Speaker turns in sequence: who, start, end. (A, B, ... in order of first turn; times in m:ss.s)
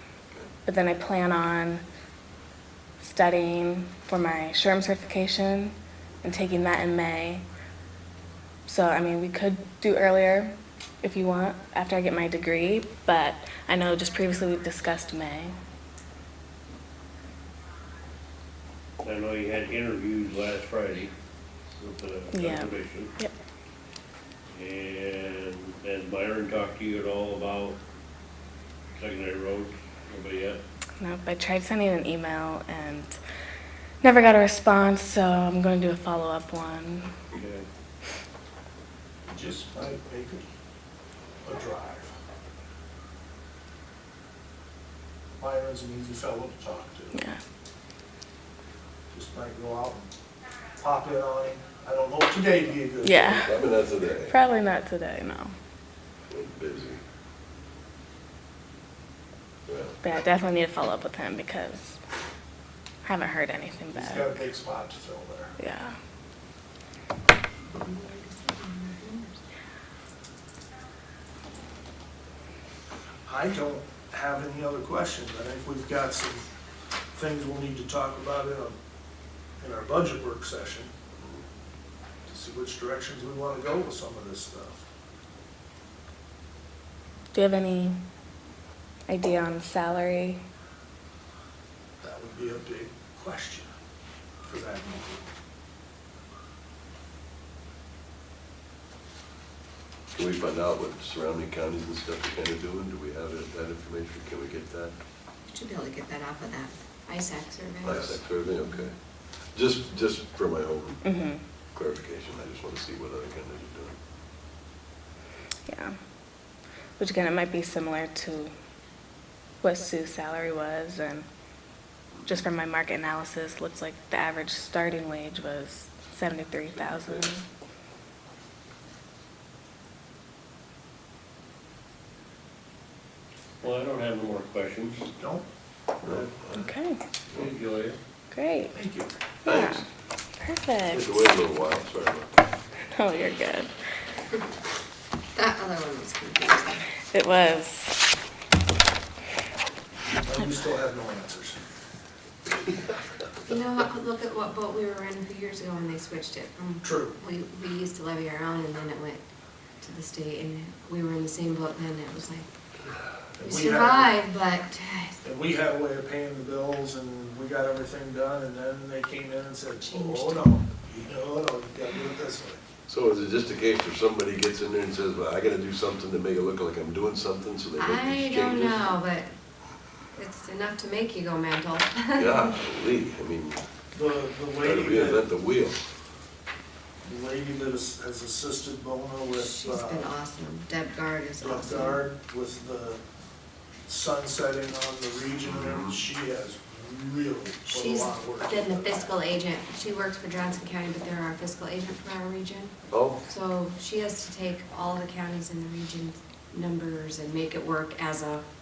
0:00.6-0:01.8 A
0:03.0-0:07.4 A
0:08.7-0:15.6 A
0:19.0-0:21.1 B
0:21.7-0:23.1 B
0:22.3-0:23.3 A
0:24.5-0:27.8 B
0:28.9-0:30.6 B
0:31.0-0:33.2 A
0:34.0-0:37.1 A
0:37.3-0:37.6 B
0:39.3-0:40.4 C
0:41.4-0:42.1 C
0:45.3-0:47.2 C
0:47.1-0:47.4 A
0:49.1-0:50.1 C
0:50.8-0:53.5 C
0:53.0-0:53.6 A
0:53.3-0:54.4 D
0:54.3-0:55.5 A
0:56.3-0:57.0 D
0:59.7-1:00.0 D
1:00.0-1:02.0 A
1:03.0-1:04.5 A
1:03.9-1:05.5 C
1:05.6-1:06.0 A
1:07.7-1:09.4 E
1:13.2-1:16.5 C
1:17.1-1:18.8 C
1:19.6-1:20.9 C
1:22.2-1:24.8 C
1:27.3-1:28.0 A
1:29.1-1:30.4 A
1:32.0-1:33.7 C
1:34.4-1:35.3 C
1:40.1-1:44.9 D
1:45.5-1:48.2 E
1:47.8-1:49.0 D
1:49.5-1:51.2 D
1:51.0-1:51.4 A
1:51.7-1:54.0 D
1:55.7-1:56.0 A
1:57.0-1:58.5 A
1:59.6-2:01.2 A
2:02.2-2:07.4 A
2:13.6-2:15.1 B
2:15.2-2:15.4 C
2:16.0-2:16.7 D
2:16.5-2:17.0 A
2:17.3-2:18.0 B
2:18.3-2:18.7 A
2:18.7-2:19.1 C
2:19.4-2:19.8 D
2:19.4-2:19.8 A
2:20.4-2:21.2 A
2:20.9-2:22.3 D
2:22.9-2:23.7 A
2:25.3-2:26.9 E
2:27.1-2:28.0 A
2:30.2-2:31.6 C
2:33.4-2:39.2 E
2:36.8-2:37.2 C
2:39.8-2:42.5 E
2:43.4-2:44.1 C
2:43.4-2:45.2 E
2:45.2-2:52.6 C
2:49.8-2:50.5 E
2:52.9-2:59.0 D
2:57.7-2:59.3 E
3:00.1-3:02.6 E
3:02.2-3:03.6 D
3:03.9-3:05.2 C
3:04.6-3:05.8 D
3:07.0-3:10.1 C
3:09.3-3:12.0 E
3:11.4-3:13.0 C
3:13.9-3:19.1 C
3:15.4-3:16.0 D
3:17.7-3:28.4 E
3:22.9-3:23.2 D